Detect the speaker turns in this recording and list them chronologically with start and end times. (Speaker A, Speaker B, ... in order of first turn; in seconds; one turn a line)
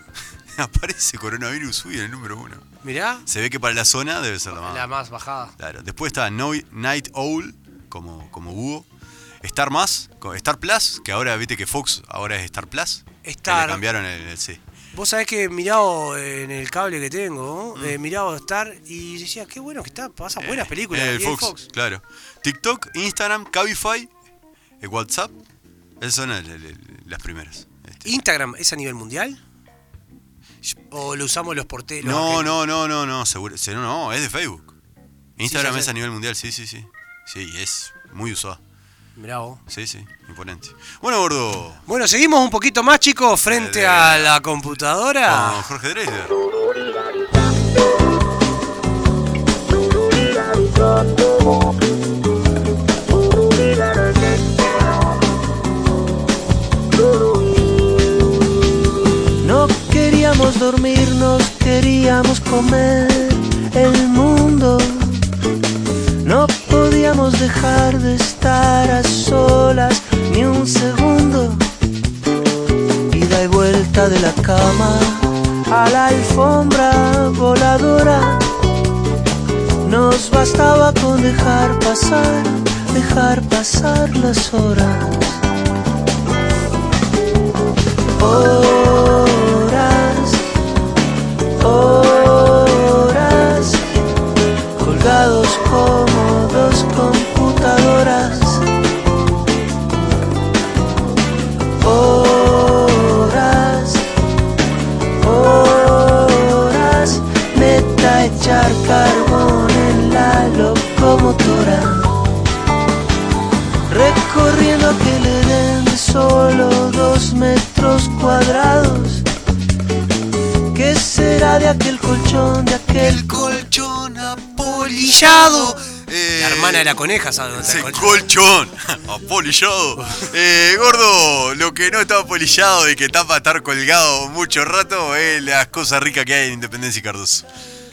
Speaker A: 0.5-2.6
Speaker B: 2.8-3.2
Speaker A: 3.2-4.9
Speaker B: 4.5-5.5
Speaker A: 5.6-8.9
Speaker A: 9.4-14.6
Speaker B: 13.2-13.8
Speaker B: 14.9-21.6
Speaker A: 20.4-24.1
Speaker A: 24.8-25.3
Speaker A: 26.0-28.1
Speaker B: 28.0-29.4
Speaker B: 30.9-32.6
Speaker A: 32.0-34.7
Speaker A: 35.4-38.6
Speaker B: 35.4-35.9
Speaker B: 39.1-39.6
Speaker A: 39.7-41.8
Speaker B: 41.9-45.6
Speaker A: 43.5-44.4
Speaker A: 45.2-46.4
Speaker C: 59.4-65.2
Speaker C: 66.2-71.7
Speaker C: 73.1-78.5
Speaker C: 79.8-85.4
Speaker C: 88.2-90.4
Speaker C: 91.6-93.9
Speaker C: 94.8-98.7
Speaker C: 101.8-104.0
Speaker C: 105.2-112.1
Speaker C: 113.9-119.2
Speaker C: 120.7-123.6
Speaker A: 123.0-126.9
Speaker B: 124.6-125.8
Speaker B: 126.3-128.3
Speaker A: 127.6-137.4
Speaker B: 130.0-130.3